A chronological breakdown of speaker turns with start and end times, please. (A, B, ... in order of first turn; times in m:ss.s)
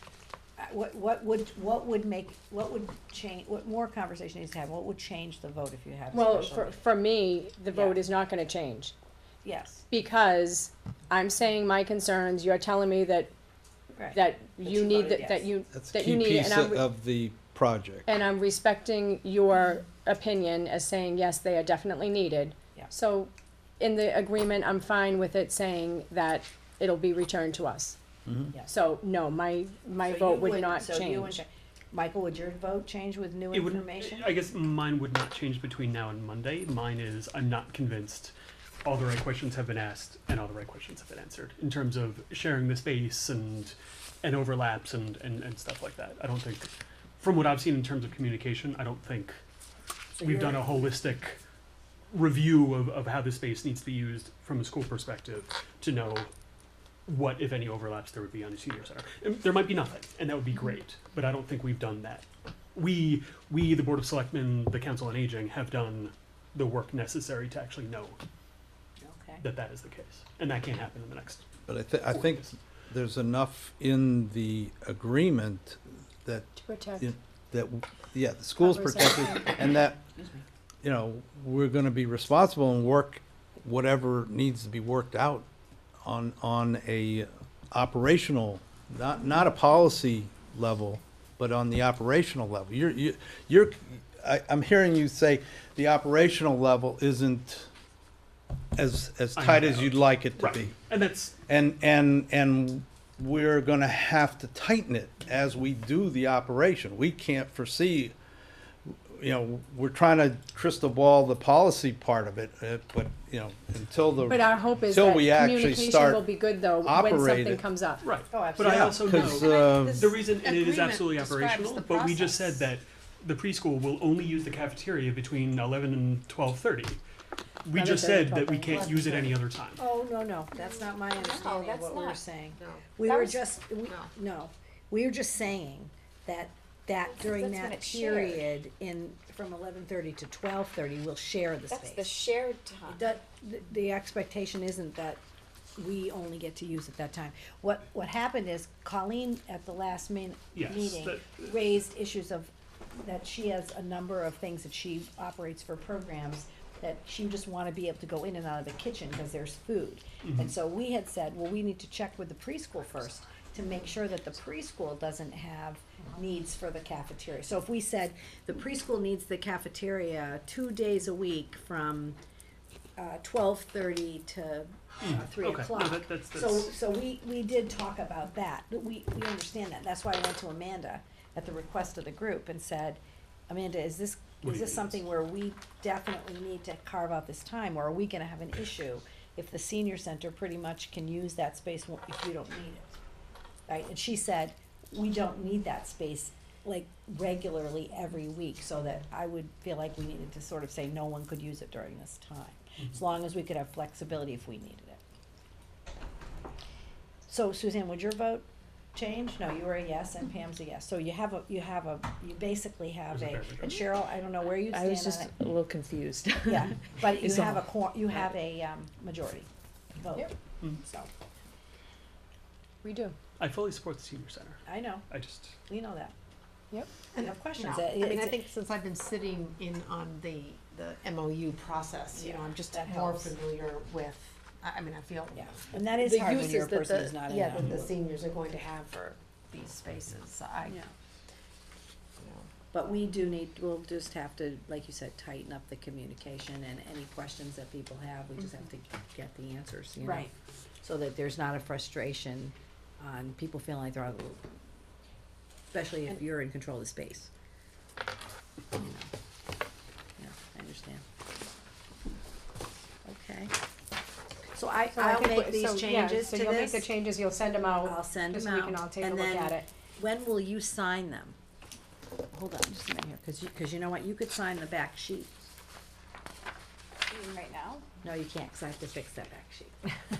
0:00.6-0:06.8 A
0:06.1-0:08.9 B
0:07.7-0:08.0 A
0:09.4-0:09.8 A
0:09.9-0:13.3 B
0:13.9-0:15.5 A
0:14.1-0:16.8 B
0:15.7-0:18.1 C
0:18.1-0:28.0 B
0:28.6-0:31.4 B
0:30.0-0:34.3 A
0:33.5-0:49.4 D
0:50.2-0:51.4 D
0:52.1-0:56.3 D
0:57.1-1:08.2 D
1:09.0-1:09.4 A
1:09.4-1:11.4 D
1:11.7-1:20.0 C
1:16.6-1:17.1 B
1:18.6-1:19.5 B
1:20.2-1:20.4 A
1:20.8-1:25.5 C
1:26.0-1:37.7 C
1:38.8-1:40.8 C
1:39.4-1:41.4 D
1:41.5-1:48.1 C
1:49.1-1:57.6 C
1:54.3-1:58.0 B
1:58.0-2:07.0 D
1:58.3-1:59.2 A
1:58.6-2:00.1 C
1:59.3-2:02.7 E
2:07.6-2:09.8 D
2:07.7-2:08.8 B
2:08.7-2:09.4 E
2:09.8-2:22.2 A
2:11.4-2:13.3 E
2:17.2-2:18.0 F
2:21.8-2:22.9 F
2:22.9-2:25.2 A
2:25.8-2:52.2 A
2:30.5-2:31.5 D
2:40.2-2:40.5 D
2:53.0-3:13.0 A
2:55.0-2:56.7 D
3:04.4-3:05.0 D
3:13.7-3:25.0 A
3:27.3-3:35.3 A
3:33.1-3:33.8 D
3:34.7-3:37.6 G
3:36.4-3:41.1 A
3:42.8-3:43.2 B
3:43.4-3:45.6 D
3:44.6-3:45.0 A
3:45.7-3:46.1 A
3:47.1-4:00.8 E
3:47.2-3:48.4 A
3:52.1-3:53.4 A
3:55.3-3:57.9 A
4:02.2-4:02.5 E
4:02.7-4:10.3 A
4:10.0-4:10.3 B
4:10.8-4:14.4 A
4:15.7-4:17.3 A
4:18.7-4:19.1 A
4:20.2-4:21.0 A
4:23.0-4:23.5 A
4:24.5-4:26.9 A
4:24.9-4:29.6 B
4:27.8-4:31.4 A
4:32.3-4:35.4 A
4:37.1-4:37.8 B
4:38.0-4:39.9 A